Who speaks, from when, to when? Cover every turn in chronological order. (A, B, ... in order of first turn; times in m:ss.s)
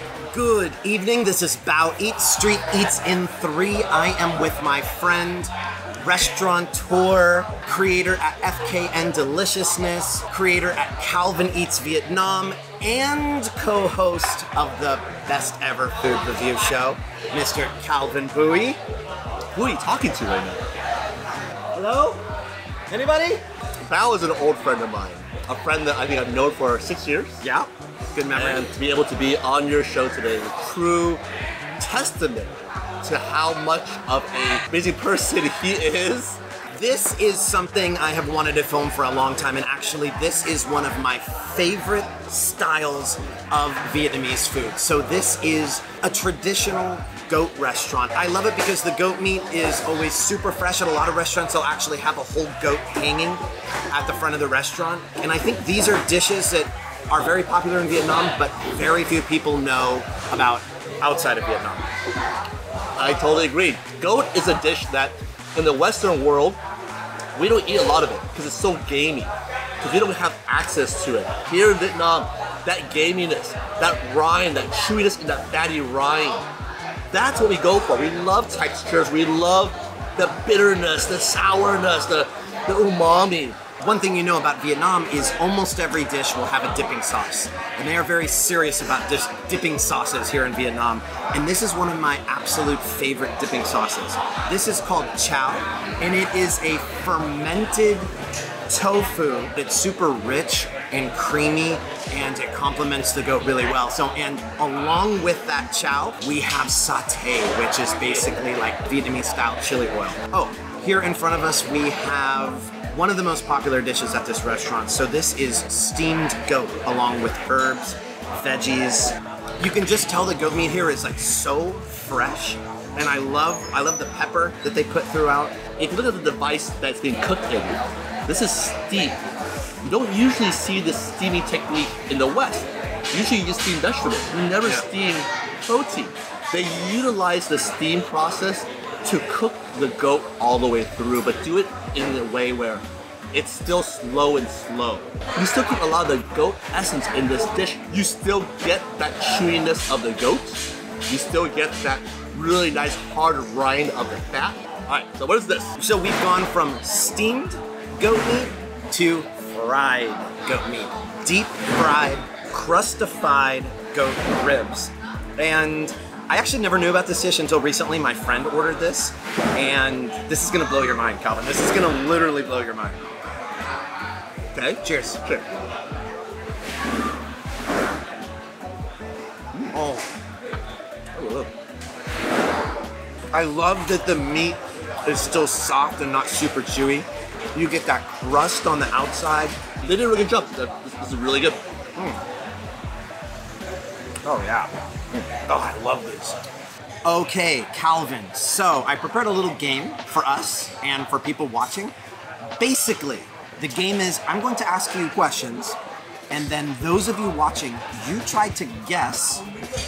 0:00.3-0:05.5 A
0:06.0-0:18.8 A
0:19.5-0:20.6 B
0:21.7-0:22.2 A
0:22.9-0:23.4 A
0:23.8-0:27.4 B
0:27.4-0:28.7 A
0:28.2-0:31.2 B
0:31.8-0:36.4 B
0:36.7-0:53.4 A
0:53.9-1:01.9 A
1:03.0-1:06.6 B
1:07.3-1:16.5 B
1:17.1-1:23.6 B
1:23.8-1:38.1 A
1:38.7-2:05.6 A
2:05.8-2:09.2 B
2:09.8-2:35.7 B
2:35.8-2:53.0 A
2:54.5-2:55.4 B
2:54.8-2:55.2 A
2:59.7-3:00.1 A
3:01.2-3:01.5 B
3:03.3-3:09.6 A
3:09.8-3:11.6 B
3:12.0-3:12.2 A
3:14.2-3:14.7 A
3:15.2-3:16.4 A
3:17.0-3:21.9 A
3:22.6-3:25.8 A
3:26.3-3:29.4 A